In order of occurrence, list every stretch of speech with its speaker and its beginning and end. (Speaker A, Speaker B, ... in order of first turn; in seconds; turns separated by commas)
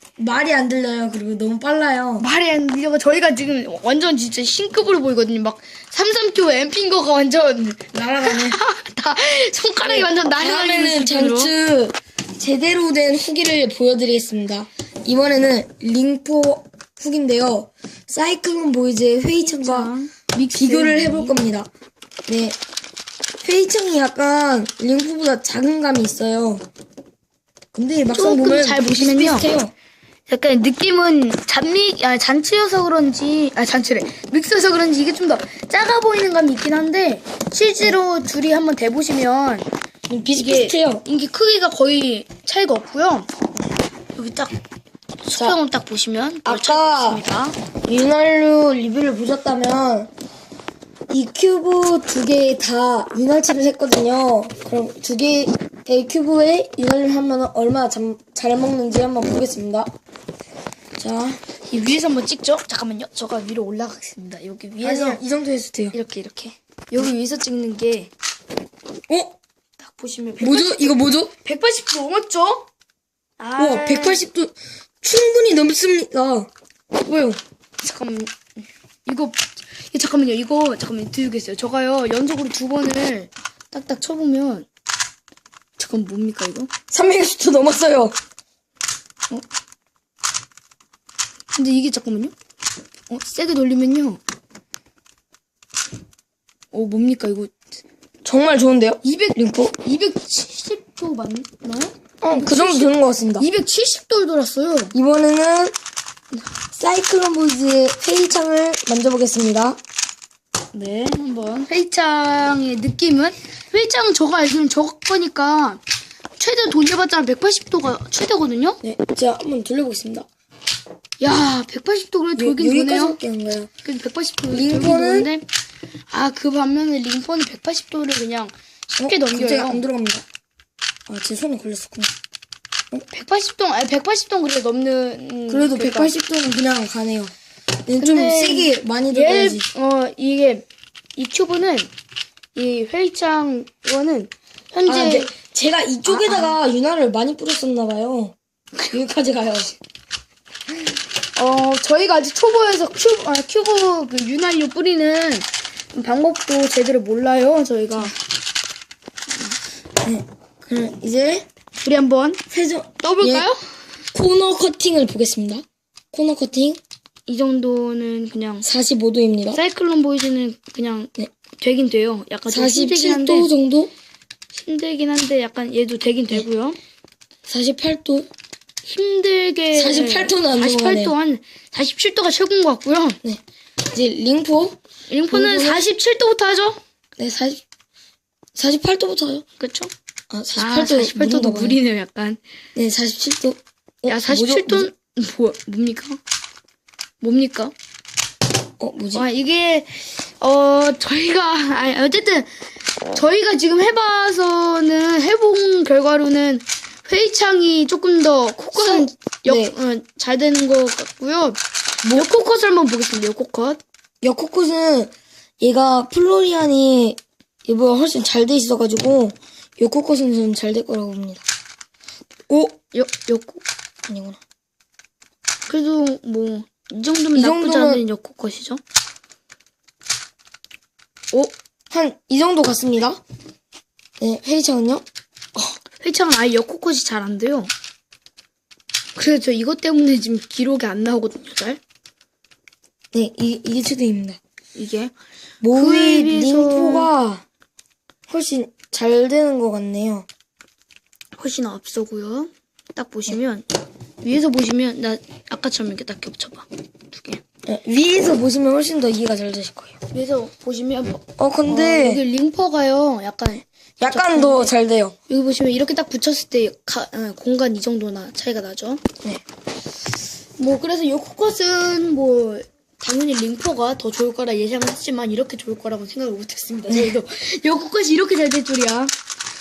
Speaker A: 0.2-2.3, Speaker B: 2.2-11.5, Speaker A: 7.9-8.6, Speaker A: 9.9-19.9, Speaker B: 19.4-21.4, Speaker A: 20.5-21.7, Speaker A: 22.3-22.6, Speaker A: 23.4-26.6, Speaker A: 27.7-29.7, Speaker B: 28.1-29.5, Speaker B: 30.3-39.7, Speaker A: 40.1-41.0, Speaker B: 40.4-43.3, Speaker B: 44.1-44.5, Speaker B: 45.2-47.6, Speaker A: 46.5-47.2, Speaker A: 47.8-50.1, Speaker A: 51.1-59.9, Speaker A: 61.0-61.4, Speaker B: 61.7-65.2, Speaker A: 64.8-66.0, Speaker B: 65.9-68.1, Speaker A: 69.1-69.4, Speaker B: 69.8-72.7, Speaker A: 70.4-71.3, Speaker B: 73.4-74.2, Speaker A: 73.6-77.4, Speaker B: 77.8-78.4, Speaker B: 79.1-84.7, Speaker B: 85.8-86.7, Speaker A: 86.9-88.2, Speaker B: 91.5-92.3, Speaker B: 93.1-94.2, Speaker B: 96.7-97.5, Speaker A: 98.2-99.8, Speaker B: 99.0-104.9, Speaker A: 102.2-103.5, Speaker A: 104.9-105.7, Speaker A: 106.7-109.8, Speaker B: 110.7-115.8, Speaker B: 116.4-118.8, Speaker A: 118.8-120.3, Speaker B: 121.2-123.2, Speaker A: 122.4-123.7, Speaker B: 123.8-125.5, Speaker A: 124.5-125.3, Speaker B: 126.1-129.9, Speaker A: 129.0-130.2, Speaker A: 131.1-132.1, Speaker B: 133.1-136.1, Speaker A: 135.5-137.3, Speaker A: 137.9-139.7, Speaker B: 138.0-141.9, Speaker B: 142.6-145.3, Speaker A: 144.9-148.3, Speaker B: 146.1-146.6, Speaker A: 148.9-149.8, Speaker B: 151.3-158.1, Speaker A: 160.0-161.5, Speaker B: 161.8-162.4, Speaker A: 162.5-163.5, Speaker B: 163.0-163.6, Speaker A: 164.1-166.8, Speaker B: 167.3-168.7, Speaker A: 168.6-169.6, Speaker B: 169.5-173.5, Speaker A: 172.5-173.9, Speaker B: 174.5-176.8, Speaker A: 177.5-178.3, Speaker B: 178.8-183.2, Speaker A: 179.8-181.2, Speaker A: 183.9-184.8, Speaker B: 185.1-186.8, Speaker A: 185.3-185.8, Speaker A: 187.2-187.6, Speaker A: 188.6-189.4, Speaker B: 189.6-189.9, Speaker A: 190.3-191.8, Speaker B: 190.6-192.4, Speaker A: 192.8-194.9, Speaker B: 194.1-196.2, Speaker B: 197.2-197.7, Speaker A: 198.8-199.3, Speaker B: 199.1-202.5, Speaker B: 203.1-213.8, Speaker A: 208.7-209.7, Speaker A: 214.2-221.4, Speaker A: 222.5-222.8, Speaker B: 222.9-223.6, Speaker A: 224.1-224.4, Speaker B: 225.7-228.8, Speaker A: 227.3-228.0, Speaker A: 231.9-233.2, Speaker A: 234.2-235.1, Speaker B: 236.0-237.7, Speaker B: 239.2-241.8, Speaker A: 243.1-244.4, Speaker B: 244.8-245.1, Speaker A: 245.6-247.4, Speaker B: 245.7-247.1, Speaker A: 248.3-250.3, Speaker B: 251.4-253.7, Speaker B: 254.2-257.4, Speaker A: 257.7-259.9, Speaker B: 260.1-264.7, Speaker A: 261.4-262.2, Speaker A: 264.0-265.2, Speaker B: 265.3-269.0, Speaker B: 270.6-279.1